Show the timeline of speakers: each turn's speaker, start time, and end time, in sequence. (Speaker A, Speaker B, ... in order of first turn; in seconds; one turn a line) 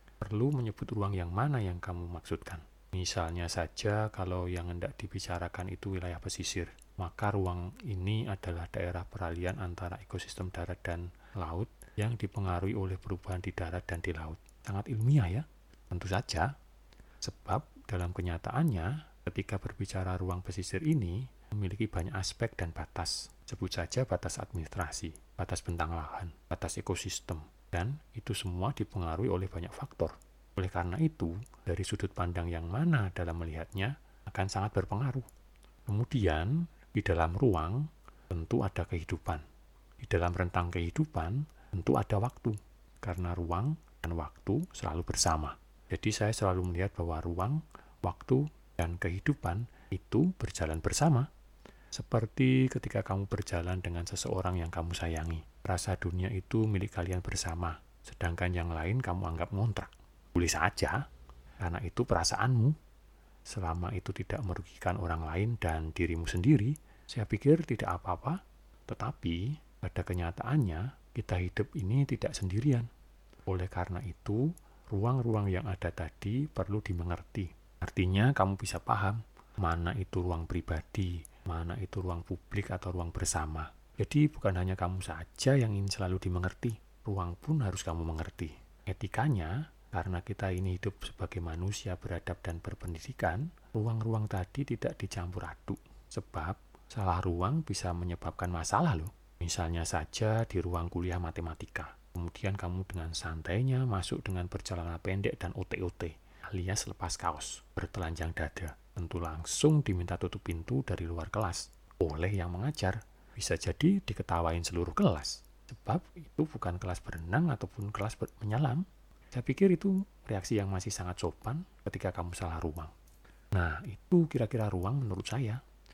Speaker A: 0.2-16.5
Speaker A: 17.2-35.2
Speaker A: 35.9-39.4
Speaker A: 40.0-51.3
Speaker A: 51.9-61.0
Speaker A: 61.6-62.8
Speaker A: 63.5-72.9
Speaker A: 73.5-122.9
Speaker A: 123.5-125.6